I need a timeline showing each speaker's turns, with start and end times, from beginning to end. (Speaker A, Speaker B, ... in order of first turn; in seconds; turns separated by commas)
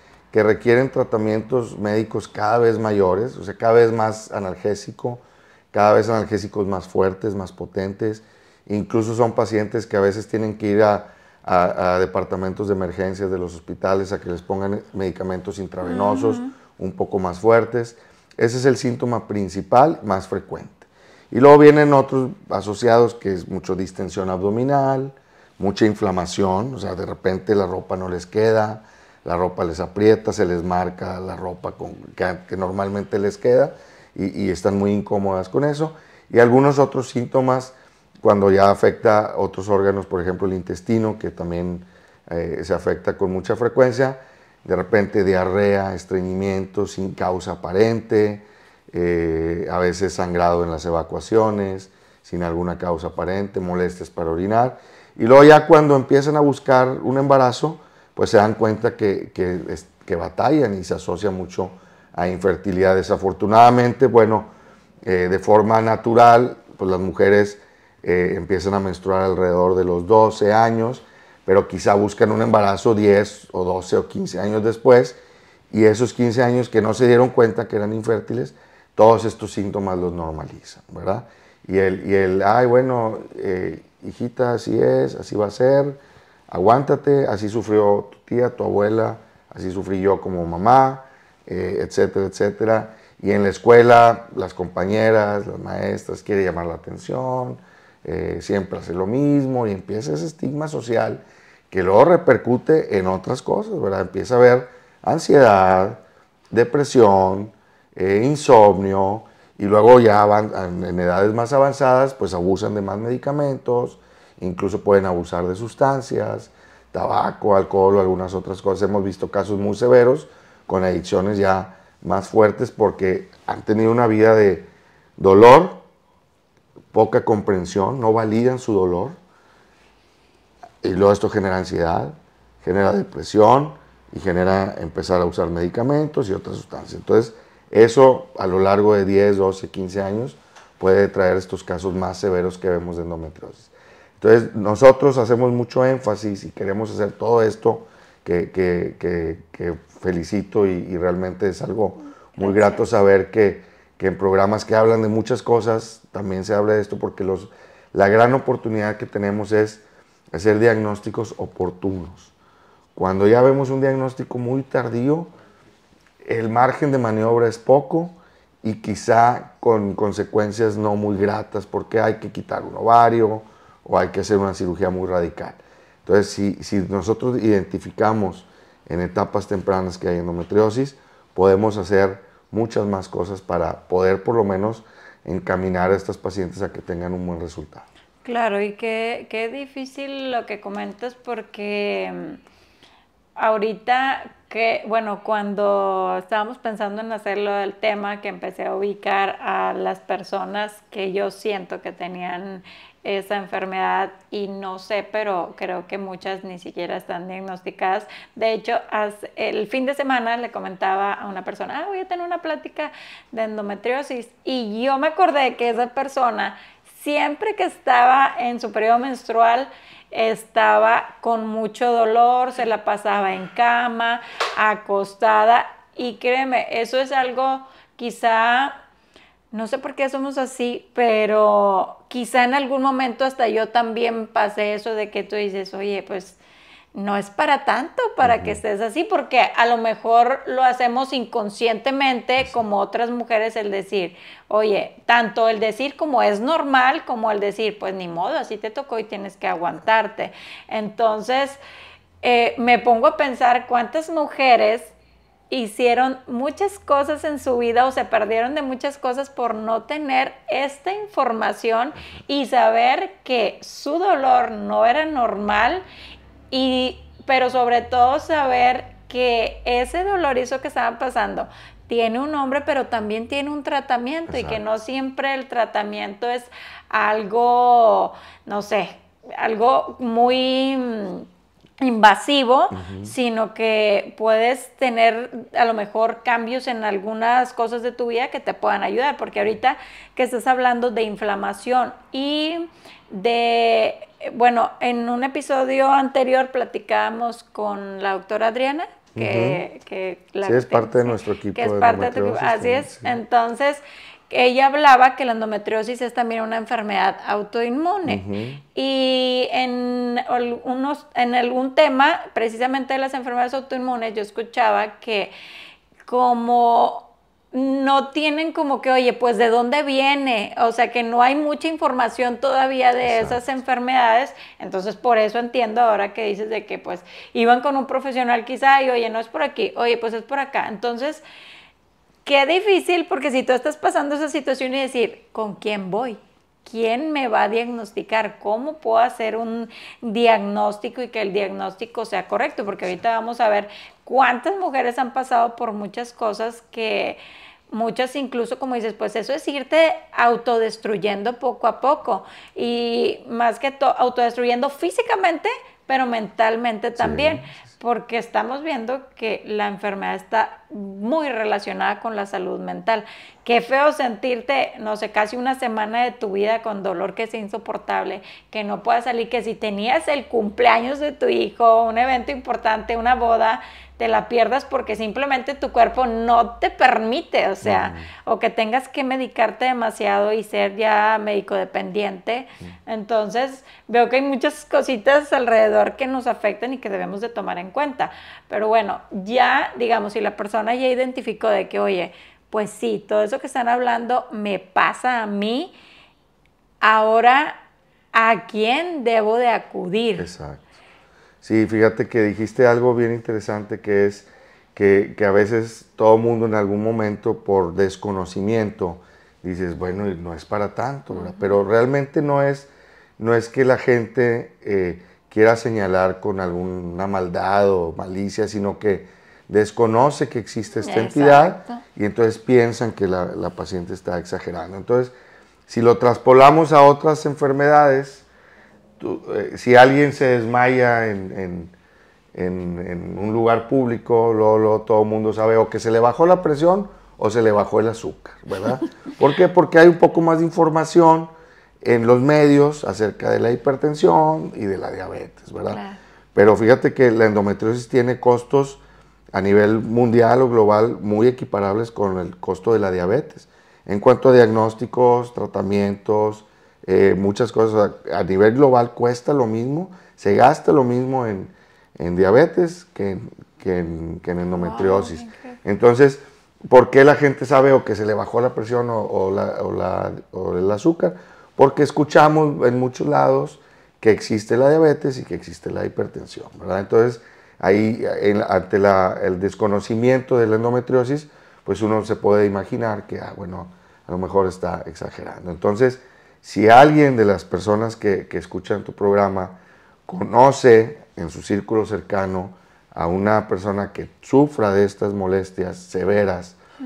Speaker A: 0.3-64.5, Speaker B: 15.8-16.5, Speaker A: 65.0-75.2, Speaker A: 75.7-125.8, Speaker A: 126.9-129.2, Speaker A: 130.8-162.3, Speaker B: 152.4-152.8, Speaker A: 162.9-165.3, Speaker A: 166.2-187.8, Speaker B: 188.2-192.4, Speaker B: 193.3-228.8, Speaker B: 229.5-236.4, Speaker B: 236.9-251.6, Speaker A: 238.2-238.6, Speaker B: 252.2-254.9, Speaker B: 255.5-265.8, Speaker B: 266.5-281.3, Speaker A: 274.3-274.6, Speaker B: 281.8-315.3, Speaker A: 282.7-283.1, Speaker A: 299.1-299.6, Speaker A: 300.4-303.2, Speaker A: 308.1-308.6, Speaker B: 316.1-331.2, Speaker A: 323.0-323.4, Speaker B: 332.2-347.2, Speaker B: 347.7-395.7, Speaker A: 357.0-357.5, Speaker A: 377.6-378.1, Speaker B: 396.8-397.6, Speaker B: 398.1-400.3, Speaker A: 400.2-400.6, Speaker A: 401.4-425.1, Speaker B: 420.8-421.8, Speaker A: 425.7-428.2, Speaker A: 429.0-431.7, Speaker A: 432.3-441.3, Speaker A: 441.8-445.8, Speaker B: 445.7-446.0, Speaker A: 446.3-448.8, Speaker A: 449.3-496.6, Speaker B: 464.5-465.6